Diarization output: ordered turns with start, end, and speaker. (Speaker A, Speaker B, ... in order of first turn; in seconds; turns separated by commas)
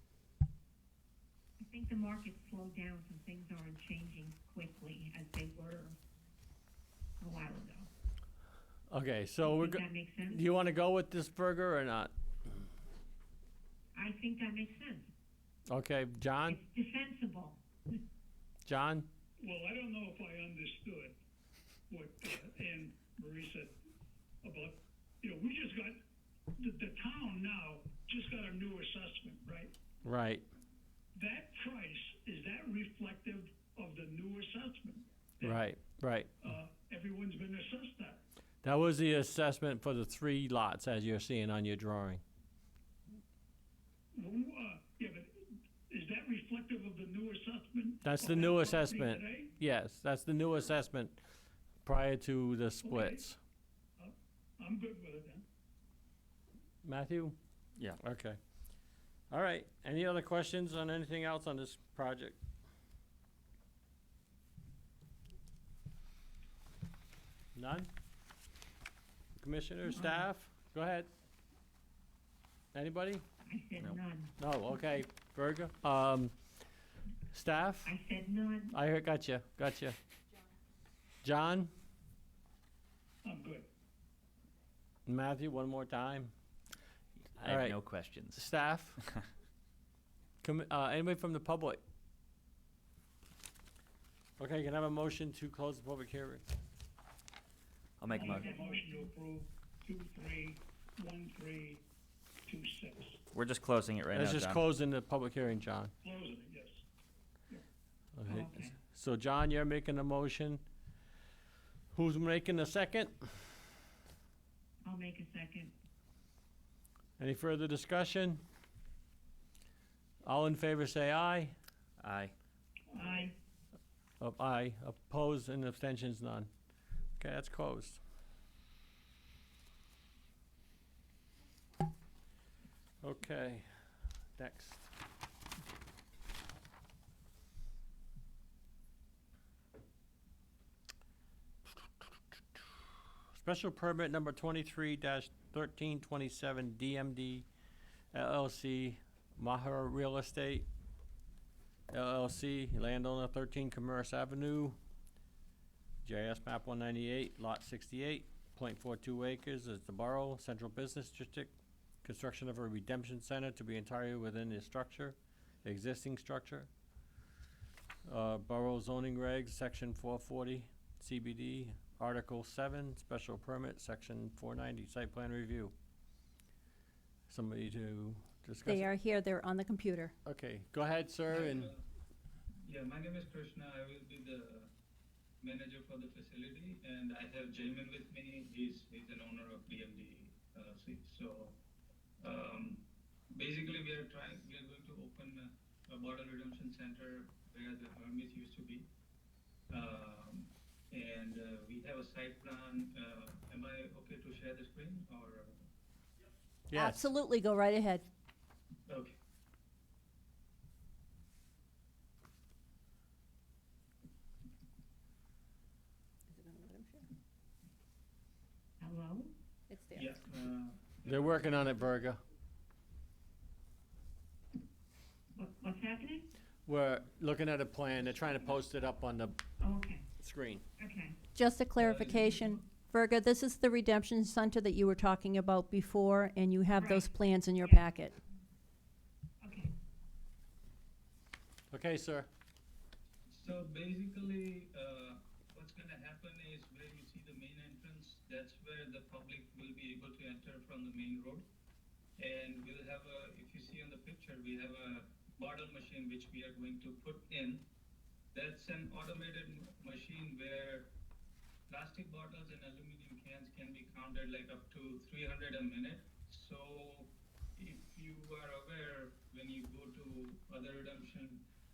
Speaker A: 1.6-6.0, Speaker A: 7.2-7.9, Speaker B: 8.9-12.1, Speaker A: 9.4-10.4, Speaker A: 13.9-15.1, Speaker B: 15.7-16.6, Speaker A: 16.4-17.6, Speaker B: 18.6-19.1, Speaker C: 19.4-21.2, Speaker C: 21.9-23.8, Speaker C: 24.4-26.0, Speaker C: 26.6-29.7, Speaker B: 30.0-30.4, Speaker C: 31.1-35.6, Speaker B: 35.4-36.4, Speaker C: 36.4-38.2, Speaker B: 38.6-42.2, Speaker C: 44.1-49.5, Speaker B: 48.0-51.2, Speaker B: 51.8-53.4, Speaker C: 52.8-53.2, Speaker C: 54.0-55.4, Speaker B: 56.8-57.4, Speaker B: 58.0-58.4, Speaker B: 59.3-62.4, Speaker B: 67.5-67.9, Speaker B: 69.4-71.1, Speaker A: 69.8-70.3, Speaker B: 72.7-73.2, Speaker A: 73.4-74.3, Speaker B: 74.4-76.3, Speaker B: 77.3-77.9, Speaker A: 77.8-78.7, Speaker B: 78.7-80.0, Speaker B: 81.2-81.7, Speaker C: 83.2-83.7, Speaker B: 85.0-86.3, Speaker D: 87.2-88.5, Speaker B: 87.4-87.8, Speaker B: 88.3-89.0, Speaker B: 90.4-91.8, Speaker B: 94.4-96.4, Speaker D: 98.0-98.5, Speaker C: 98.1-101.8, Speaker A: 98.2-99.1, Speaker C: 102.5-103.2, Speaker D: 103.3-104.6, Speaker B: 104.1-105.9, Speaker C: 106.0-106.8, Speaker B: 108.2-110.6, Speaker A: 108.3-108.8, Speaker B: 111.9-113.2, Speaker A: 114.8-115.7, Speaker B: 117.2-118.4, Speaker B: 120.2-121.5, Speaker D: 122.0-122.3, Speaker C: 122.9-123.3, Speaker B: 124.2-126.5, Speaker B: 127.2-128.0, Speaker B: 133.0-134.9, Speaker B: 143.3-147.4, Speaker B: 148.1-150.7, Speaker B: 151.9-154.8, Speaker B: 156.0-161.5, Speaker B: 162.0-166.7, Speaker B: 168.1-175.7, Speaker B: 177.3-178.9, Speaker E: 178.6-180.1, Speaker B: 180.2-181.7, Speaker F: 181.3-181.8, Speaker F: 182.6-184.7, Speaker F: 185.4-191.6, Speaker F: 192.2-198.9, Speaker F: 199.7-205.6, Speaker B: 206.7-207.1, Speaker E: 206.7-208.0, Speaker F: 208.9-209.1, Speaker A: 218.8-219.3, Speaker E: 219.7-220.0, Speaker F: 219.9-221.7, Speaker B: 221.1-222.2, Speaker A: 225.3-226.2, Speaker B: 226.7-229.4, Speaker A: 229.6-230.1, Speaker B: 230.2-230.6, Speaker A: 230.8-231.2, Speaker E: 231.3-238.1, Speaker F: 231.8-232.6, Speaker A: 236.8-237.9, Speaker A: 239.4-239.7, Speaker B: 241.7-242.3, Speaker F: 243.3-251.4, Speaker F: 252.2-257.7, Speaker F: 258.3-260.9, Speaker F: 261.7-271.4